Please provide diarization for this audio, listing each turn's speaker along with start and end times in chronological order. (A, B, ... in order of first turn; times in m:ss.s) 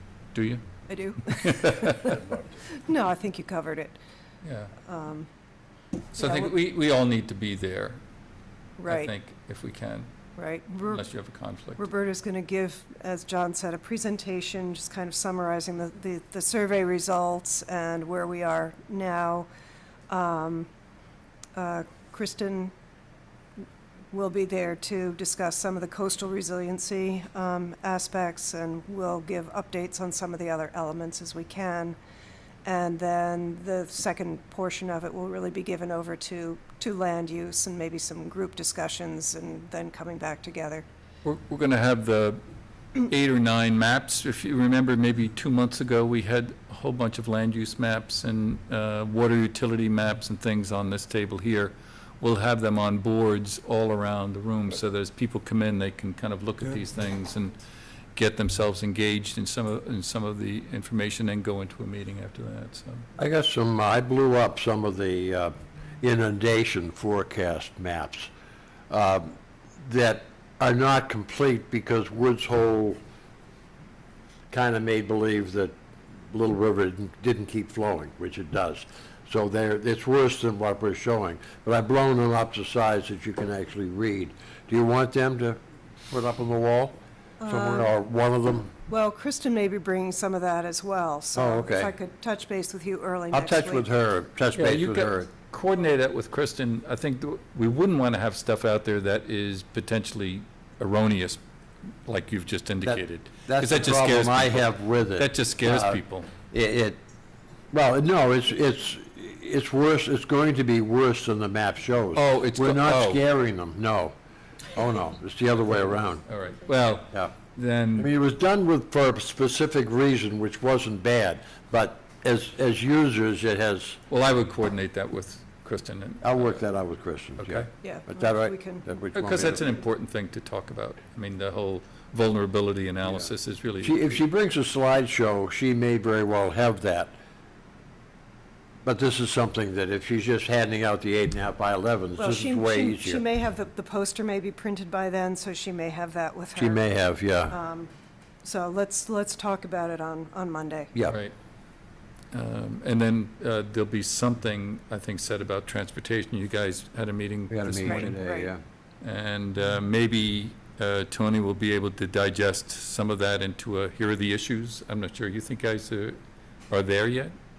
0:00.3-0:00.6 A
0:00.9-0:02.2 B
0:01.4-0:02.2 A
0:02.7-0:04.0 B
0:04.4-0:04.7 A
0:04.8-0:05.3 B
0:06.1-0:08.0 A
0:06.2-0:06.5 B
0:08.8-0:09.1 B
0:08.9-0:10.1 A
0:10.4-0:11.0 B
0:10.9-0:11.8 A
0:11.8-0:19.5 B
0:20.1-0:20.7 B
0:21.5-0:22.7 B
0:24.1-0:32.0 B
0:32.6-0:40.8 B
0:41.2-0:42.4 A
0:43.0-0:57.5 A
0:58.1-1:03.1 A
1:03.2-1:08.3 C
1:08.9-1:13.0 C
1:14.5-1:15.7 C
1:16.3-1:25.6 C
1:26.1-1:27.0 C
1:27.4-1:27.9 B
1:27.5-1:28.7 C
1:28.9-1:33.8 B
1:31.3-1:31.9 C
1:33.3-1:35.3 C
1:34.5-1:41.4 A
1:42.0-1:46.3 A
1:42.8-1:47.0 C
1:47.7-1:54.1 C
1:52.1-1:53.2 A
1:54.7-1:56.2 C
1:56.2-1:58.1 A
1:58.0-2:04.0 C
2:04.1-2:06.6 A
2:06.2-2:09.6 C
2:07.4-2:07.7 A
2:07.8-2:08.8 B
2:09.1-2:14.2 A
2:13.8-2:17.1 C
2:18.8-2:23.2 C
2:22.2-2:26.8 B
2:26.6-2:27.5 C
2:27.5-2:27.9 B
2:28.4-2:30.9 B
2:31.1-2:31.3 A
2:32.3-2:38.2 A
2:37.5-2:38.6 C
2:37.9-2:38.5 B
2:39.0-2:46.2 A
2:46.7-2:47.3 A